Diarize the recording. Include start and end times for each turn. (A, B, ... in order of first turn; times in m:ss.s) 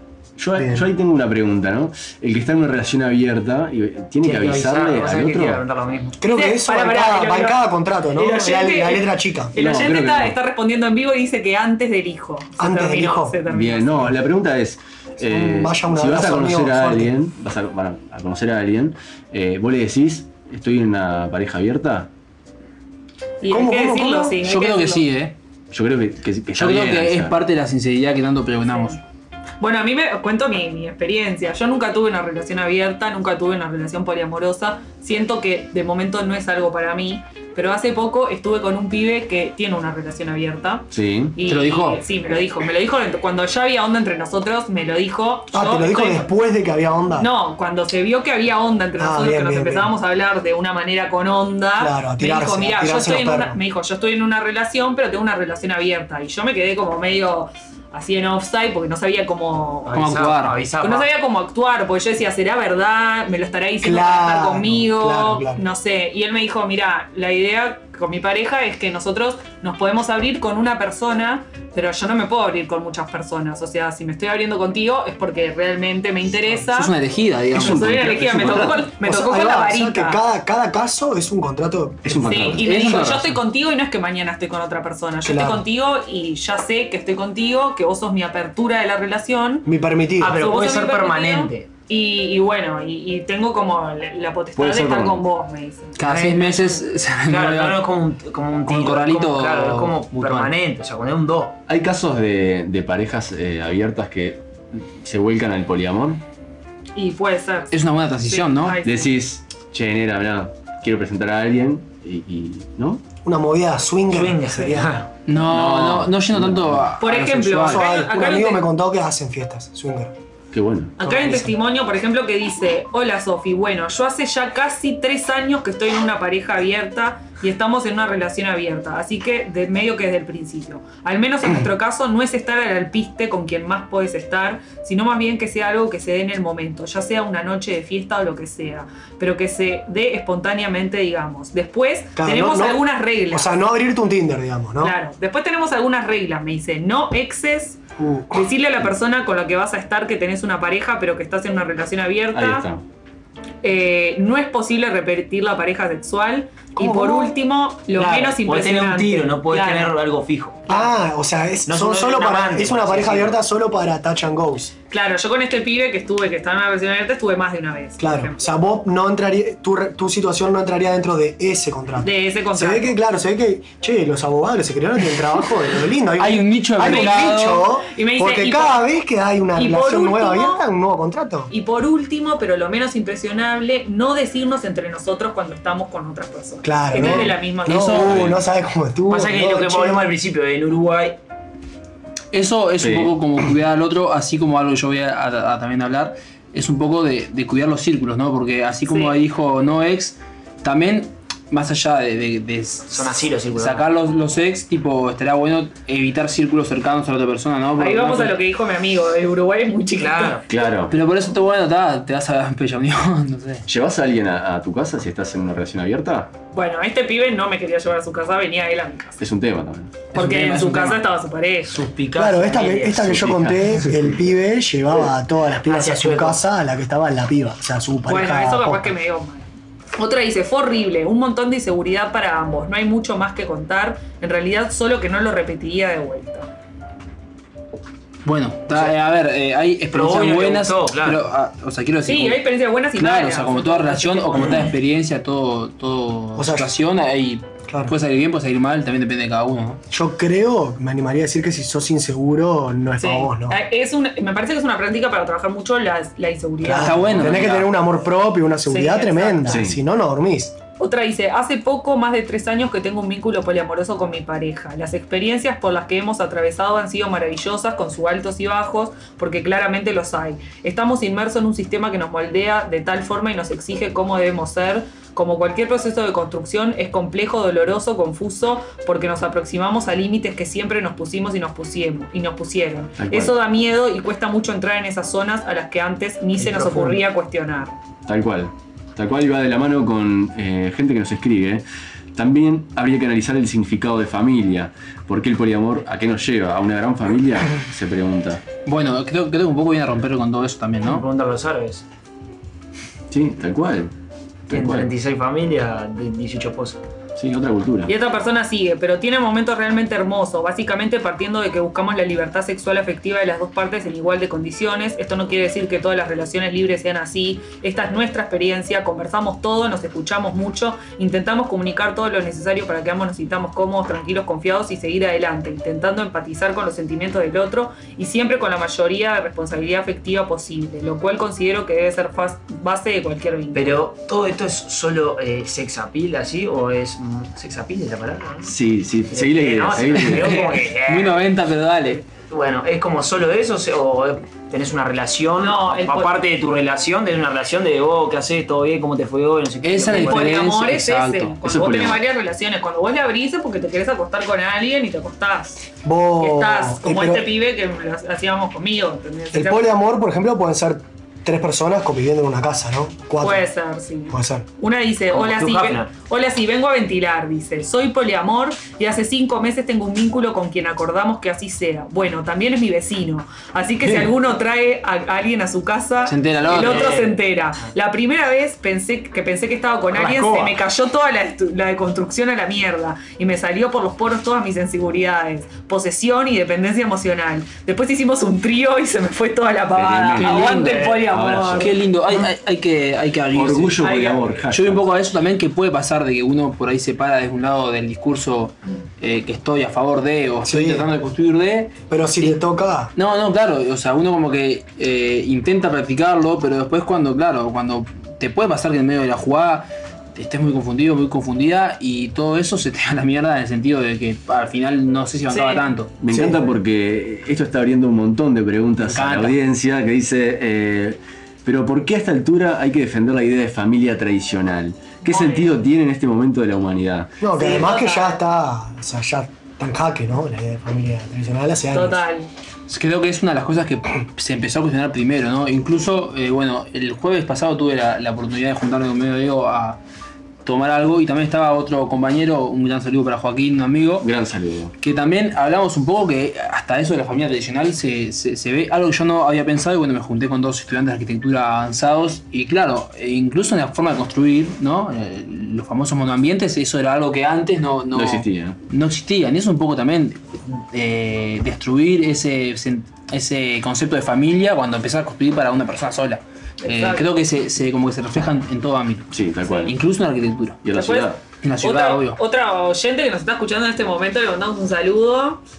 0:00.4-0:05.6 A
0:00.6-0:00.9 B
0:04.2-0:06.2 C
0:06.2-0:09.6 B
0:06.2-0:14.1 D
0:09.6-0:10.4 A
0:12.6-0:13.4 B
0:13.5-0:22.1 A
0:15.2-0:17.2 B
0:23.4-0:25.1 D
0:23.5-0:24.4 B
0:24.4-0:25.4 E
0:25.7-0:27.4 A
0:26.5-0:29.0 E
0:28.7-0:29.0 D
0:29.6-0:46.3 D
0:40.9-0:41.4 A
0:41.4-0:42.0 E
0:45.5-0:47.3 B
0:47.2-1:17.0 D
0:49.0-0:49.9 B
0:51.8-0:53.6 B
0:59.8-1:01.1 C
0:59.9-1:00.7 E
1:03.8-1:05.6 B
1:16.7-1:18.8 E
1:17.5-1:18.8 A
1:17.6-1:20.2 D
1:19.0-1:22.5 B
1:22.0-1:22.9 A
1:22.3-1:29.7 D
1:22.6-1:23.4 E
1:25.2-1:25.7 B
1:29.6-1:30.4 B
1:30.2-1:31.7 C
1:30.3-1:36.6 D
1:34.6-1:35.2 A
1:36.0-1:37.9 E
1:36.1-1:36.4 C
1:37.3-1:41.6 C
1:38.7-1:40.5 E
1:41.7-1:46.2 A
1:47.0-1:49.1 D
1:47.7-1:48.8 E
1:48.8-1:53.0 A
1:53.2-1:55.0 B
1:54.1-1:56.1 C
1:55.3-1:57.9 E
1:56.4-1:56.8 A
1:57.0-1:58.7 D
1:57.6-2:00.1 B
2:00.5-2:01.0 A
2:01.0-2:23.6 D
2:01.0-2:01.6 B
2:22.2-2:25.0 B
2:24.8-2:27.8 D
2:28.0-2:28.5 B
2:28.3-2:32.7 D
2:32.3-2:32.8 A
2:33.6-2:40.0 D
2:36.8-2:37.4 B
2:37.9-2:40.8 C
2:40.7-2:44.7 B
2:41.7-2:43.4 C
2:44.9-2:48.4 D
2:48.0-3:01.5 B
2:52.0-2:53.0 D
2:56.2-2:57.8 E
2:56.8-2:57.3 D
2:57.9-2:58.9 D
2:59.5-3:00.6 D
3:01.5-3:08.0 D
3:06.6-3:10.1 B
3:06.9-3:08.3 E
3:08.0-3:08.4 A
3:09.1-3:11.2 C
3:12.3-3:28.4 E
3:12.8-3:13.1 A
3:18.9-3:19.2 D
3:22.9-3:23.8 C
3:27.8-3:30.4 D
3:30.0-3:30.4 C
3:30.5-3:30.9 A
3:30.9-3:33.6 E
3:33.7-3:36.3 A
3:36.5-3:39.2 D
3:39.2-3:40.0 A
3:40.1-3:41.0 E
3:40.1-3:41.8 D
3:41.7-3:43.2 C
3:42.2-3:49.0 B
3:43.0-3:44.2 A
3:45.7-3:46.4 C
3:48.1-3:56.5 D
3:58.2-4:02.4 E
3:59.9-4:01.2 C
4:02.1-4:04.7 D
4:03.0-4:09.8 E
4:06.4-4:06.7 B
4:07.7-4:08.0 B
4:09.9-4:13.6 B
4:13.0-4:17.5 D
4:16.6-4:20.6 B
4:16.7-4:17.7 E
4:18.7-4:19.6 D
4:19.5-4:19.8 A
4:20.8-4:47.8 D
4:43.0-4:43.3 A
4:46.4-4:47.0 C
4:48.1-4:58.4 A
4:58.6-5:01.0 E
5:00.8-5:01.8 C
5:03.1-5:03.9 A
5:04.5-5:04.9 A
5:04.5-5:06.8 C
5:07.2-5:07.9 A
5:07.9-5:33.9 D
5:33.5-5:38.5 C
5:38.4-5:40.4 A
5:39.1-5:41.2 C
5:40.0-5:42.0 E
5:42.3-5:50.3 C
5:45.4-5:46.2 D
5:49.6-5:51.4 E
5:50.0-5:55.6 D
5:51.4-5:52.0 A
5:55.8-5:57.3 B
5:56.2-5:59.7 D
5:59.3-6:03.5 B
6:03.2-6:31.7 D
6:04.1-6:04.5 B
6:05.1-6:05.9 C
6:16.1-6:17.0 E
6:16.5-6:17.2 C
6:19.9-6:20.6 C
6:29.7-6:31.7 A
6:30.2-6:31.0 E
6:30.5-6:31.1 C
6:31.6-6:42.4 E
6:33.3-6:34.8 A
6:33.8-6:34.3 D
6:40.4-6:40.9 B
6:41.9-6:42.9 B
6:43.0-6:56.0 E
6:55.3-6:55.7 D
6:56.0-7:07.1 A
6:56.1-6:56.5 B
6:58.8-6:59.4 E
7:05.0-7:05.6 D
7:07.2-7:12.0 B
7:07.3-7:08.2 D
7:11.7-7:12.3 D
7:12.7-7:19.8 E
7:20.4-7:24.1 E
7:24.0-7:24.7 A
7:24.8-7:40.2 E
7:37.9-7:38.6 A
7:40.7-7:49.1 E
7:46.6-7:47.1 D
7:49.1-7:49.7 A
7:49.4-7:49.7 D
7:49.7-7:50.6 E
7:50.6-7:51.2 A
7:50.7-7:55.4 D
7:51.4-7:52.2 E